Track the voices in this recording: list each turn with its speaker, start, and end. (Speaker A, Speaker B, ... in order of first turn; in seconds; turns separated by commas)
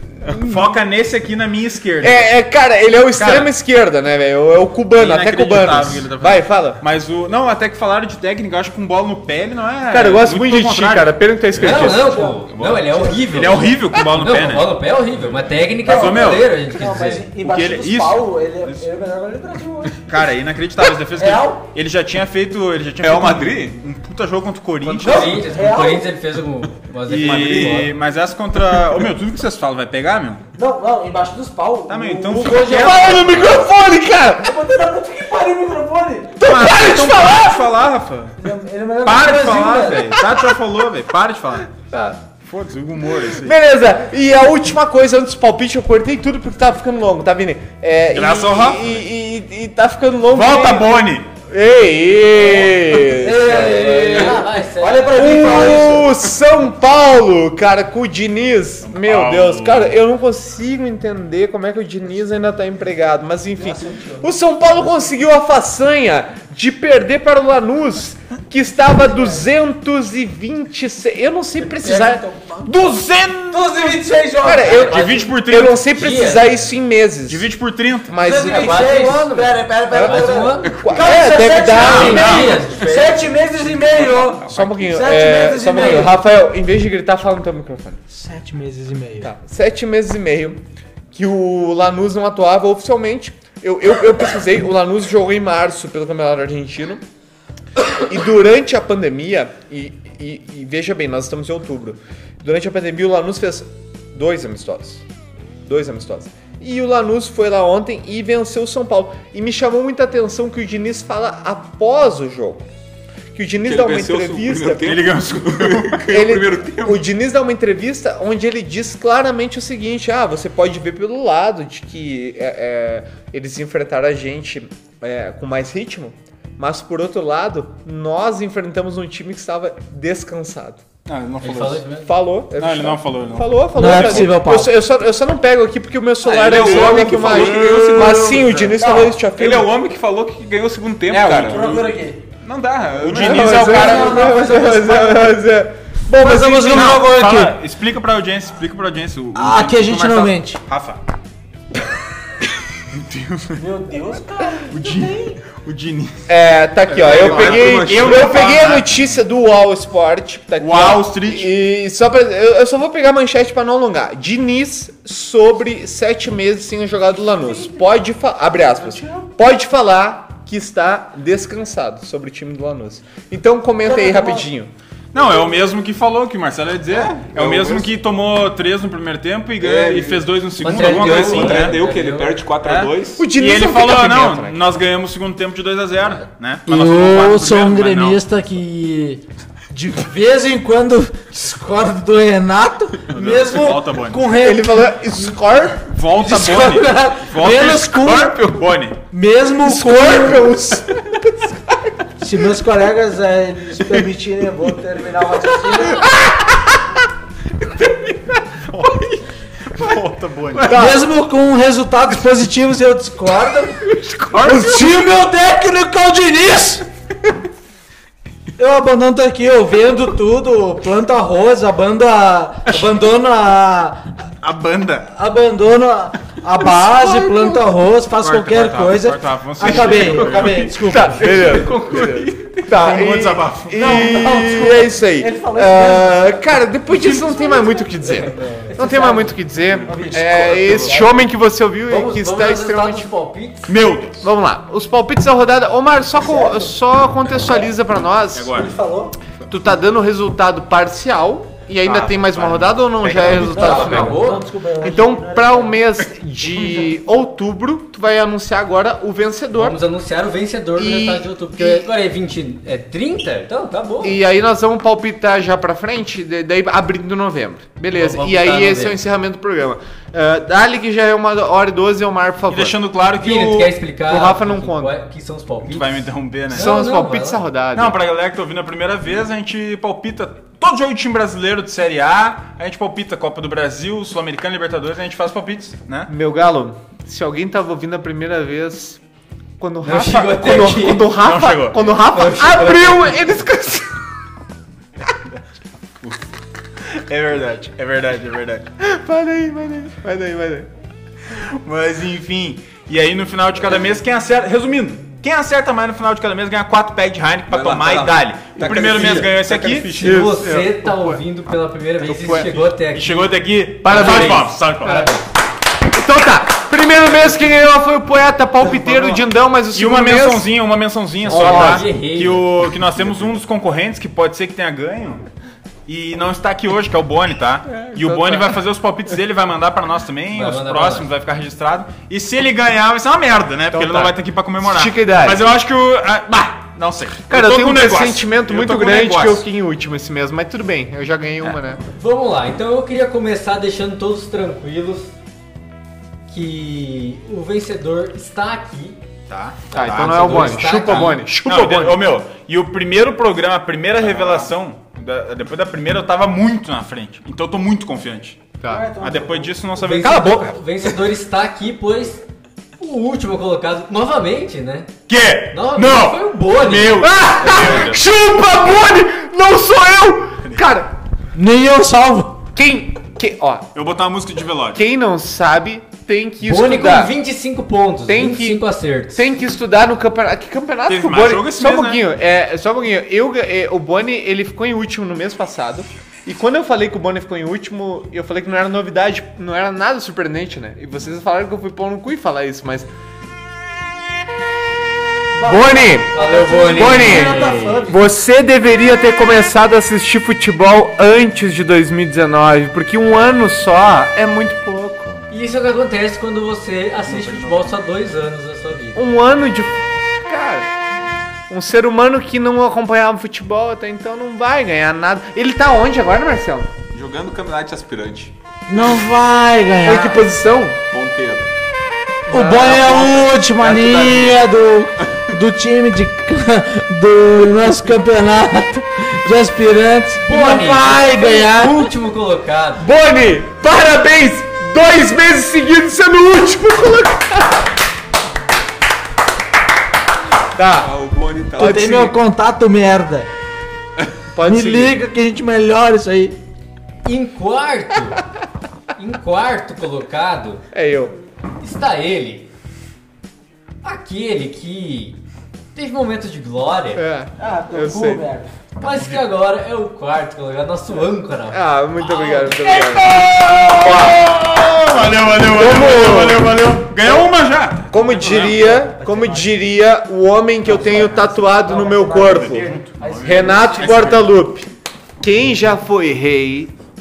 Speaker A: 0.2-2.3, Speaker B: 0.3-0.7, Speaker B: 2.0-6.8, Speaker A: 3.2-3.5, Speaker A: 5.0-11.8, Speaker B: 9.9-12.1, Speaker C: 11.5-17.3, Speaker D: 11.9-13.2, Speaker E: 12.5-13.1, Speaker A: 13.3-16.5, Speaker D: 15.8-20.0, Speaker A: 17.4-18.8, Speaker A: 20.1-25.3, Speaker D: 21.1-21.6, Speaker E: 23.0-23.8, Speaker C: 24.8-27.9, Speaker D: 25.0-26.1, Speaker A: 27.1-30.4, Speaker E: 27.2-27.8, Speaker D: 30.6-33.6, Speaker A: 31.9-33.6, Speaker B: 32.4-34.6, Speaker D: 34.4-36.4, Speaker B: 36.4-37.7, Speaker A: 36.4-38.4, Speaker D: 38.4-40.2, Speaker A: 39.0-41.7, Speaker B: 40.0-40.6, Speaker B: 41.8-42.2, Speaker A: 42.4-43.5, Speaker B: 43.2-54.3, Speaker A: 48.1-49.0, Speaker A: 50.3-51.3, Speaker D: 52.3-56.1, Speaker C: 53.4-55.8, Speaker B: 55.1-72.2, Speaker A: 58.9-60.0, Speaker D: 63.6-64.4, Speaker D: 69.0-69.4, Speaker D: 71.6-75.0, Speaker A: 72.6-74.0, Speaker B: 74.4-77.5, Speaker C: 74.7-75.3, Speaker A: 74.9-76.0, Speaker C: 76.0-76.5, Speaker A: 77.3-78.2, Speaker B: 78.0-78.9, Speaker D: 78.2-86.2, Speaker C: 78.4-80.8, Speaker B: 79.9-82.4, Speaker E: 80.6-81.0, Speaker A: 81.8-82.6, Speaker C: 81.8-83.2, Speaker E: 82.9-84.7, Speaker B: 84.5-88.0, Speaker D: 88.1-89.3, Speaker B: 89.2-90.6, Speaker B: 91.1-97.0, Speaker B: 97.8-105.0, Speaker B: 105.6-112.6, Speaker B: 113.3-115.0, Speaker E: 113.6-117.0, Speaker A: 114.8-116.0, Speaker B: 116.1-130.8, Speaker A: 131.1-131.8, Speaker C: 131.4-132.1, Speaker B: 132.0-139.7, Speaker A: 132.6-134.4, Speaker D: 133.8-134.7, Speaker E: 136.2-138.6, Speaker A: 136.3-138.7, Speaker D: 138.8-139.2, Speaker E: 139.4-141.8, Speaker A: 141.1-141.8, Speaker D: 141.2-142.2, Speaker E: 142.4-143.8, Speaker A: 142.9-144.4, Speaker B: 143.1-147.1, Speaker D: 143.4-145.4, Speaker D: 146.1-147.6, Speaker A: 146.6-151.0, Speaker D: 149.3-150.6, Speaker A: 152.9-153.6, Speaker D: 153.6-155.4, Speaker A: 154.7-156.3, Speaker B: 156.3-174.7, Speaker E: 156.9-158.4, Speaker A: 156.9-159.1, Speaker A: 160.6-161.5, Speaker D: 167.4-167.8, Speaker D: 168.7-169.3, Speaker D: 173.8-174.5, Speaker A: 175.1-181.8, Speaker E: 176.9-177.9, Speaker E: 179.6-183.2, Speaker C: 180.6-182.4, Speaker A: 182.6-188.2, Speaker B: 183.2-184.6, Speaker D: 186.7-194.9, Speaker A: 193.1-194.2, Speaker B: 194.3-195.9, Speaker A: 195.9-199.0, Speaker D: 196.1-198.6, Speaker D: 199.1-200.5, Speaker B: 199.6-201.9, Speaker D: 202.2-206.2, Speaker A: 207.7-211.0, Speaker B: 210.6-211.0, Speaker D: 210.6-213.8, Speaker A: 213.9-215.0, Speaker D: 214.4-216.9, Speaker D: 218.6-224.1, Speaker A: 224.4-225.1, Speaker D: 225.1-231.6, Speaker A: 228.2-234.0, Speaker B: 230.6-243.1, Speaker E: 231.2-232.6, Speaker D: 233.8-236.5, Speaker C: 238.3-238.7, Speaker D: 238.4-241.3, Speaker C: 241.9-243.7, Speaker A: 243.7-244.3, Speaker B: 244.2-248.7, Speaker D: 246.2-246.7, Speaker A: 248.3-248.7, Speaker D: 248.5-249.2, Speaker B: 249.5-254.3, Speaker A: 251.9-253.6, Speaker E: 253.0-253.5, Speaker D: 253.3-255.8, Speaker C: 253.5-254.5, Speaker B: 254.8-259.8, Speaker C: 259.5-264.2, Speaker B: 260.8-261.9, Speaker B: 264.0-272.8, Speaker C: 267.9-269.0, Speaker A: 272.5-273.8, Speaker C: 273.1-277.4, Speaker B: 274.1-274.9, Speaker A: 275.6-276.8, Speaker B: 276.5-278.0, Speaker A: 277.7-286.1, Speaker B: 286.1-289.0, Speaker B: 289.6-294.0, Speaker C: 289.8-291.1, Speaker A: 291.1-291.9, Speaker C: 292.0-293.2, Speaker A: 296.8-298.7, Speaker B: 298.8-300.7, Speaker A: 301.3-310.2, Speaker E: 307.5-310.2, Speaker C: 310.0-313.3, Speaker B: 310.0-311.2, Speaker B: 312.0-312.6, Speaker A: 312.3-315.1, Speaker B: 313.8-315.1, Speaker C: 313.9-315.2, Speaker B: 315.9-320.5, Speaker A: 319.7-325.2, Speaker C: 321.2-322.5, Speaker B: 321.3-321.8, Speaker A: 325.9-339.4, Speaker B: 327.7-328.6, Speaker C: 330.3-331.1, Speaker B: 333.7-335.4, Speaker B: 337.3-341.8, Speaker C: 341.9-345.1, Speaker C: 346.3-349.0, Speaker A: 349.3-360.5, Speaker B: 349.7-352.0, Speaker C: 349.8-351.3, Speaker E: 354.0-354.4, Speaker D: 358.6-359.6, Speaker C: 359.8-362.2, Speaker C: 362.8-364.9, Speaker A: 365.1-368.0, Speaker C: 365.5-367.9, Speaker B: 367.0-370.9, Speaker D: 371.3-372.5, Speaker B: 372.5-373.7, Speaker A: 373.8-374.8, Speaker B: 374.7-377.1, Speaker C: 376.4-379.2, Speaker B: 378.1-392.9, Speaker A: 380.9-382.0, Speaker D: 395.3-398.0, Speaker B: 395.4-405.2, Speaker C: 396.1-397.9, Speaker C: 405.3-409.0, Speaker A: 407.0-407.8, Speaker B: 408.9-410.7, Speaker B: 411.5-416.7, Speaker E: 416.9-418.3, Speaker D: 418.7-420.2, Speaker B: 419.8-420.8, Speaker E: 420.9-421.5, Speaker B: 422.3-422.9, Speaker D: 422.3-431.9, Speaker E: 422.6-424.5, Speaker C: 430.2-432.9, Speaker B: 432.8-437.6, Speaker B: 440.6-440.9, Speaker E: 440.8-441.9, Speaker B: 441.6-442.2, Speaker D: 441.6-443.3, Speaker B: 444.3-445.0, Speaker D: 444.4-446.4, Speaker C: 447.0-448.2, Speaker C: 449.0-450.6, Speaker B: 450.7-451.1, Speaker C: 451.6-452.5, Speaker C: 453.8-455.2, Speaker C: 455.8-457.0, Speaker B: 456.9-458.2, Speaker D: 457.4-458.5, Speaker C: 458.8-462.8, Speaker A: 458.8-459.2, Speaker B: 461.5-464.3, Speaker A: 462.4-468.6, Speaker B: 465.3-466.6, Speaker B: 467.9-472.7, Speaker D: 468.1-469.6, Speaker D: 470.6-474.2, Speaker A: 472.3-474.3, Speaker B: 473.2-474.7, Speaker B: 475.2-476.7